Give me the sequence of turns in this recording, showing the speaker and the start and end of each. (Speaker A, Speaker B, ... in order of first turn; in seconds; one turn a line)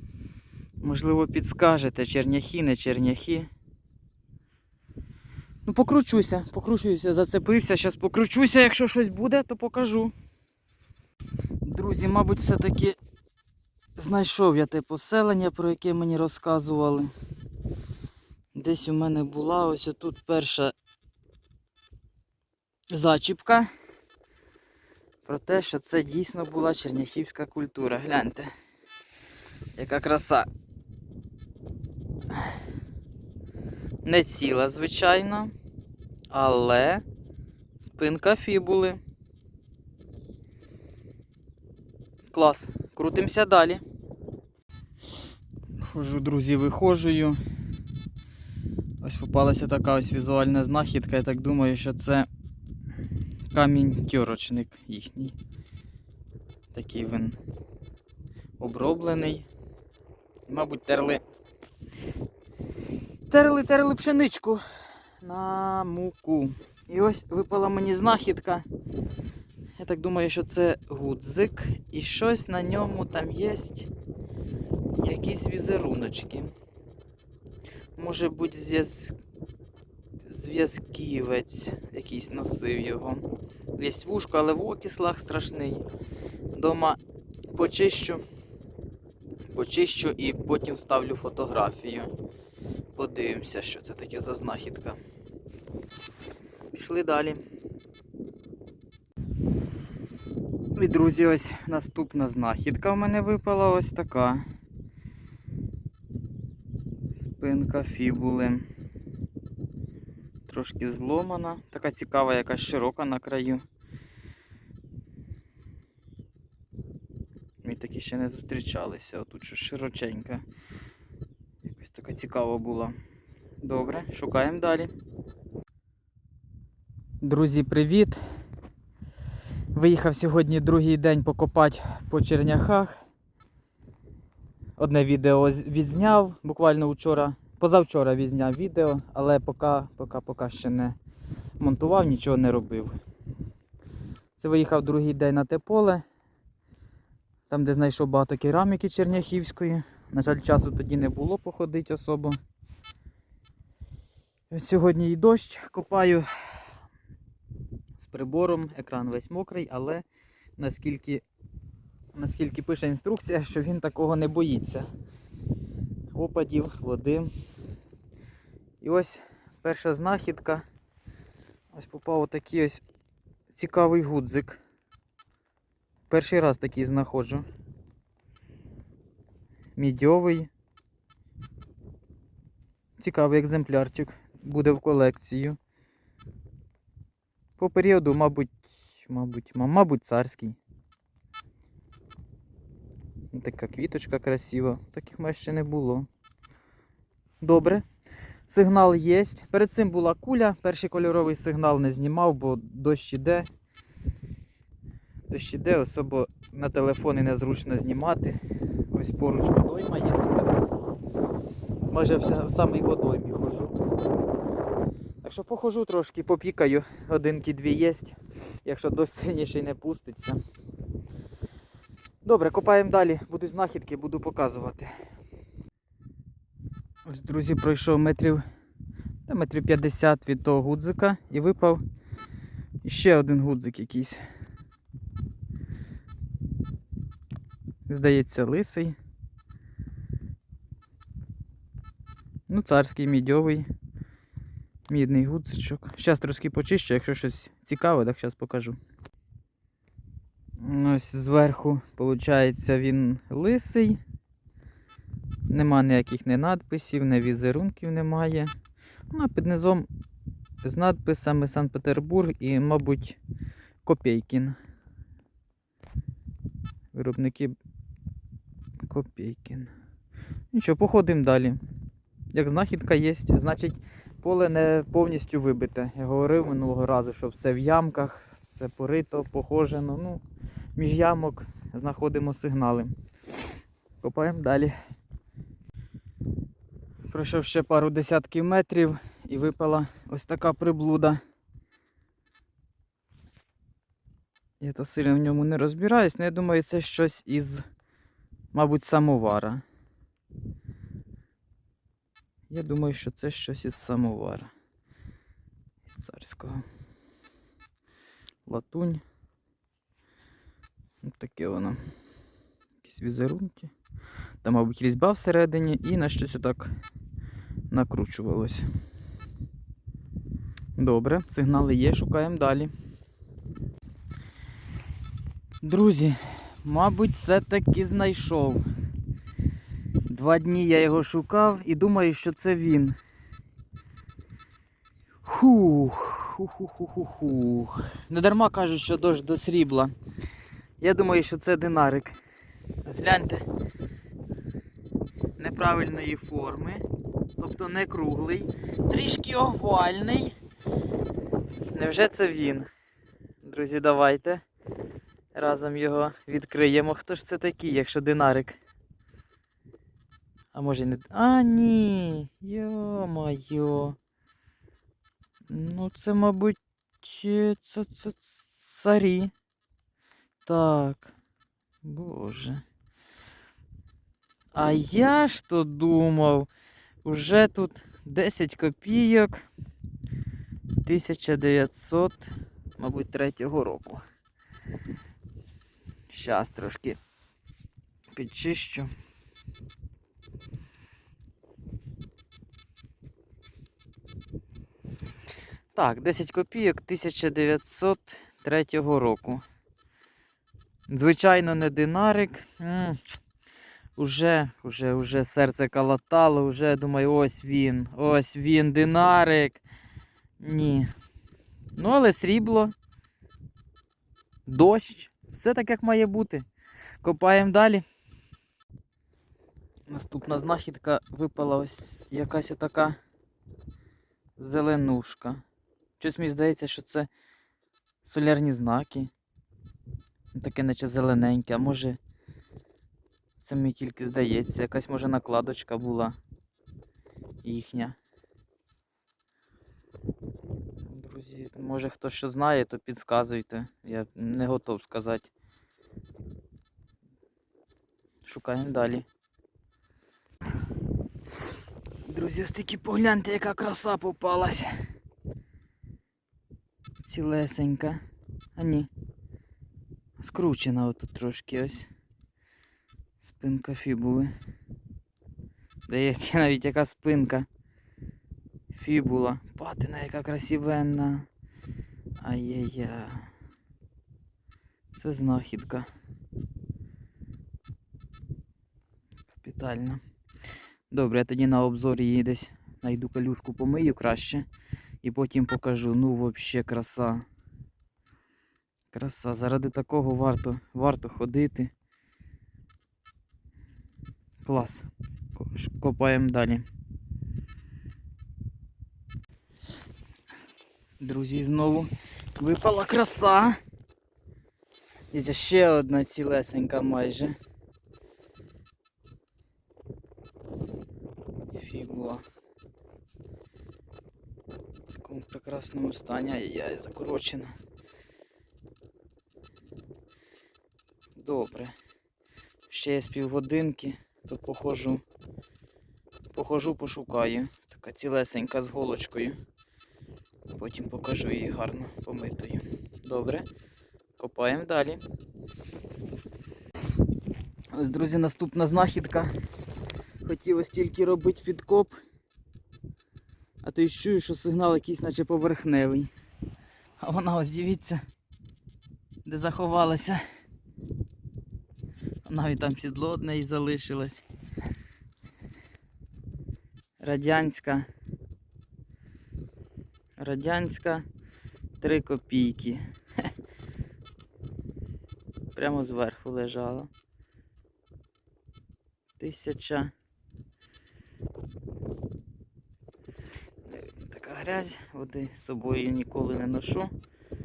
Speaker A: 0.8-3.5
Speaker A: 5.7-10.1
Speaker A: 11.6-13.0
Speaker A: 14.0-17.1
Speaker A: 18.5-20.7
Speaker A: 22.9-23.7
Speaker A: 25.2-28.5
Speaker A: 29.8-30.5
Speaker A: 34.0-35.5
Speaker A: 36.3-37.0
Speaker A: 37.8-39.0
Speaker A: 42.3-43.8
Speaker A: 45.8-47.4
Speaker A: 49.0-52.3
Speaker A: 53.5-55.4
Speaker A: 56.7-57.4
Speaker A: 58.6-59.5
Speaker A: 60.5-61.2
Speaker A: 63.3-68.6
Speaker A: 69.8-73.9
Speaker A: 75.0-76.5
Speaker A: 78.0-79.2
Speaker A: 80.2-83.2
Speaker A: 83.8-85.8
Speaker A: 86.5-87.0
Speaker A: 87.5-88.2
Speaker A: 89.5-92.1
Speaker A: 92.9-95.0
Speaker A: 96.7-97.4
Speaker A: 100.7-104.4
Speaker A: 107.1-108.7
Speaker A: 110.5-113.6
Speaker A: 117.6-120.4
Speaker A: 121.7-123.0
Speaker A: 123.6-124.9
Speaker A: 127.2-128.2
Speaker A: 129.7-133.0
Speaker A: 134.8-140.9
Speaker A: 141.6-142.9
Speaker A: 144.4-146.0
Speaker A: 147.5-152.4
Speaker A: 154.5-156.6
Speaker A: 158.0-160.0
Speaker A: 160.6-161.2
Speaker A: 162.1-164.9
Speaker A: 166.1-167.3
Speaker A: 168.8-170.6
Speaker A: 171.7-172.8
Speaker A: 173.5-174.6
Speaker A: 176.1-177.4
Speaker A: 179.8-180.5
Speaker A: 183.0-185.6
Speaker A: 187.6-190.6
Speaker A: 193.3-196.1
Speaker A: 197.4-197.8
Speaker A: 198.5-203.5
Speaker A: 205.3-208.4
Speaker A: 208.9-210.7
Speaker A: 211.9-213.7
Speaker A: 215.2-220.4
Speaker A: 222.2-224.9
Speaker A: 227.0-228.4
Speaker A: 229.3-231.8
Speaker A: 232.8-234.2
Speaker A: 237.9-238.9
Speaker A: 242.5-243.7
Speaker A: 244.9-248.8
Speaker A: 250.6-254.0
Speaker A: 255.5-258.5
Speaker A: 259.1-259.9
Speaker A: 260.6-263.2
Speaker A: 263.8-264.6
Speaker A: 266.9-267.6
Speaker A: 268.9-269.7
Speaker A: 270.5-271.6
Speaker A: 272.3-280.2
Speaker A: 280.8-282.9
Speaker A: 284.0-284.7
Speaker A: 287.1-291.2
Speaker A: 294.6-297.6
Speaker A: 298.5-299.6
Speaker A: 302.5-304.5
Speaker A: 305.9-306.6
Speaker A: 308.4-309.0
Speaker A: 311.0-311.8
Speaker A: 312.8-313.7
Speaker A: 314.4-316.7
Speaker A: 317.7-318.7
Speaker A: 320.8-322.7
Speaker A: 325.6-328.6
Speaker A: 330.1-332.9
Speaker A: 335.2-339.9
Speaker A: 340.8-342.1
Speaker A: 342.8-343.4
Speaker A: 345.4-346.8
Speaker A: 347.4-350.3
Speaker A: 351.7-352.7
Speaker A: 353.4-354.4
Speaker A: 355.3-358.6
Speaker A: 360.5-364.0
Speaker A: 365.5-369.3
Speaker A: 370.4-371.1
Speaker A: 371.8-372.6
Speaker A: 374.5-376.5
Speaker A: 377.0-379.4
Speaker A: 380.8-384.0
Speaker A: 386.1-387.0
Speaker A: 388.1-388.9
Speaker A: 395.7-399.4
Speaker A: 400.9-403.2
Speaker A: 404.0-409.6
Speaker A: 410.4-410.9
Speaker A: 411.8-412.7
Speaker A: 414.5-416.4
Speaker A: 417.0-417.8
Speaker A: 419.9-423.0
Speaker A: 424.4-425.4
Speaker A: 426.0-427.1
Speaker A: 428.0-429.1
Speaker A: 430.3-432.0
Speaker A: 433.4-436.1
Speaker A: 437.4-438.0
Speaker A: 440.8-445.3
Speaker A: 448.2-449.0
Speaker A: 452.1-454.7
Speaker A: 457.0-458.0
Speaker A: 458.6-458.9
Speaker A: 460.2-461.9
Speaker A: 463.2-464.3
Speaker A: 465.9-467.4
Speaker A: 468.7-471.3
Speaker A: 472.2-473.3
Speaker A: 474.9-475.9
Speaker A: 479.3-480.0
Speaker A: 480.9-484.4
Speaker A: 485.0-487.2
Speaker A: 488.9-491.7
Speaker A: 494.4-496.6
Speaker A: 501.0-503.6
Speaker A: 505.1-507.4
Speaker A: 511.5-512.2
Speaker A: 515.0-517.5
Speaker A: 521.2-521.7
Speaker A: 522.7-525.0
Speaker A: 526.3-529.4
Speaker A: 530.5-533.5
Speaker A: 534.2-535.0
Speaker A: 537.7-539.3
Speaker A: 540.2-541.9
Speaker A: 543.6-546.1
Speaker A: 547.0-548.0
Speaker A: 549.2-550.2
Speaker A: 552.2-554.2
Speaker A: 557.0-557.9
Speaker A: 560.2-561.0
Speaker A: 561.8-562.8
Speaker A: 565.5-566.9
Speaker A: 569.2-569.9
Speaker A: 573.7-576.9